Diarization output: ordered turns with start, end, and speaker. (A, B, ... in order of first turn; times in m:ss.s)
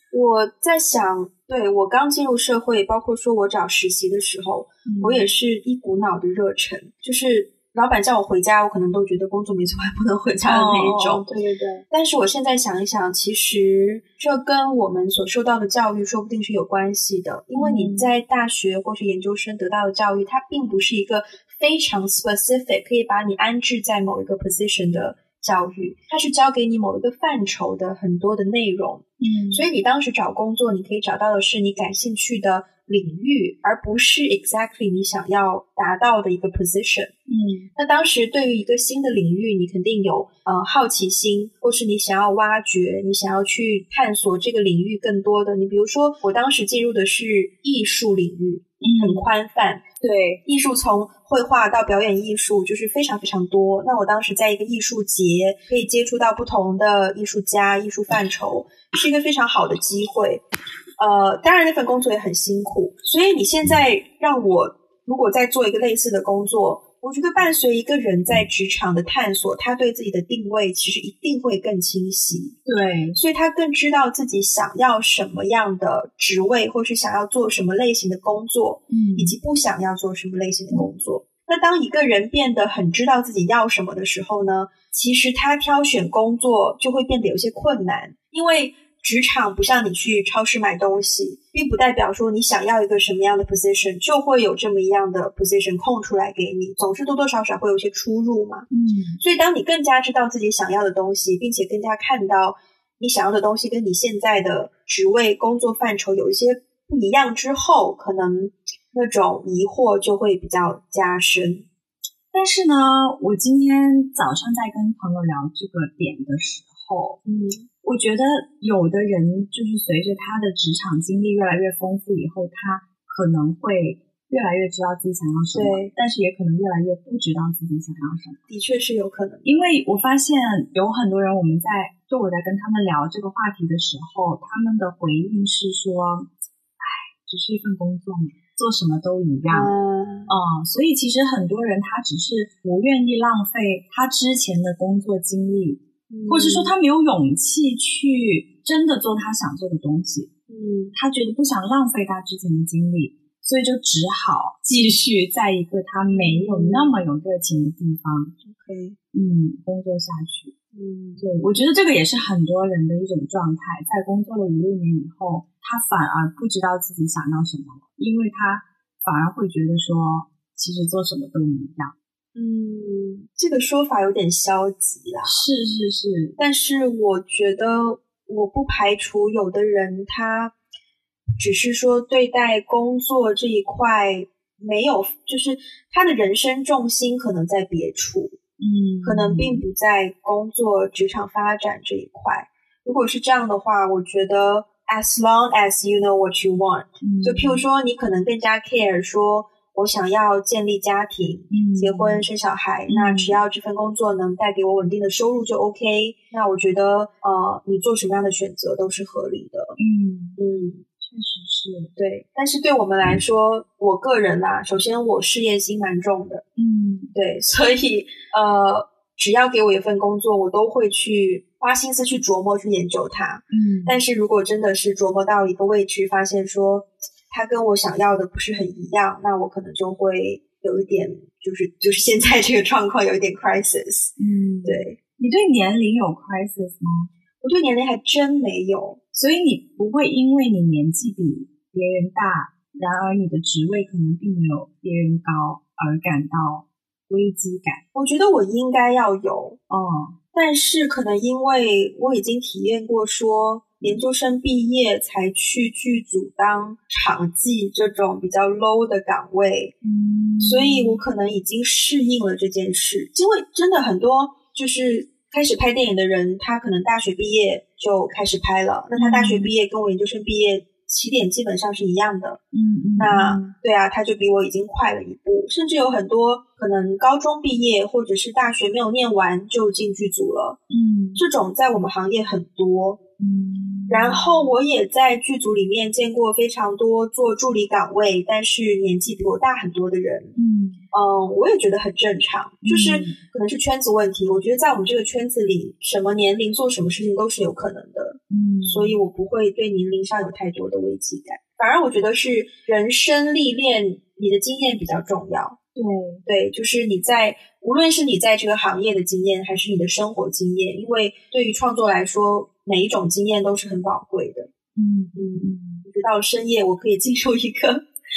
0:00.1-0:11.3 A
0:04.8-0:05.3 B
0:10.4-0:11.8 B
0:11.9-0:37.1 A
0:17.6-0:18.1 B
0:29.2-0:29.7 B
0:37.3-0:37.7 B
0:37.8-0:49.8 A
0:48.8-0:49.3 B
0:50.0-0:50.4 B
0:50.5-1:00.4 A
1:01.0-1:12.6 A
1:12.6-1:13.2 B
1:13.2-1:38.7 A
1:18.9-1:19.4 B
1:38.7-1:39.2 B
1:39.2-1:51.7 A
1:52.3-1:57.2 B
1:57.2-1:57.7 A
1:57.8-2:08.4 B
2:05.5-2:05.9 A
2:08.5-2:09.6 A
2:09.4-2:16.3 B
2:16.8-2:19.7 B
2:19.5-2:20.3 A
2:20.3-2:30.3 B
2:26.1-2:26.7 A
2:30.5-2:31.0 A
2:30.9-2:38.4 B
2:36.1-2:37.0 A
2:38.4-2:39.0 A
2:39.1-2:40.5 B
2:40.7-2:41.2 A
2:41.2-2:51.9 B
2:52.4-2:55.4 A
2:55.2-2:56.4 B
2:56.4-3:00.5 A
3:01.4-3:08.4 A
3:08.6-3:09.6 B
3:09.0-3:29.8 A
3:17.0-3:17.6 B
3:21.5-3:22.3 B
3:22.9-3:23.4 B
3:29.8-3:30.4 B
3:30.4-3:30.8 A
3:31.0-3:31.9 B
3:32.0-3:36.4 A
3:36.6-3:37.1 B
3:37.2-3:54.1 A
3:43.5-3:44.0 B
3:54.2-3:57.1 B
3:54.6-3:55.0 A
3:57.4-3:59.0 A
3:59.1-4:07.8 B
4:07.9-4:09.6 A
4:09.7-4:10.2 B
4:10.3-4:19.8 A
4:19.8-4:21.0 B
4:20.4-4:32.4 A
4:29.0-4:29.5 B
4:32.5-4:33.6 B
4:33.0-4:40.6 A
4:40.7-4:41.2 B
4:41.2-4:43.0 A
4:43.2-4:44.6 B
4:43.9-4:50.4 A
4:50.4-4:50.8 B
4:50.9-5:05.6 A
4:52.6-4:53.2 B
4:58.3-4:59.0 B
5:05.8-5:06.2 B
5:06.3-5:14.5 A
5:14.8-5:15.9 B
5:15.2-5:17.9 A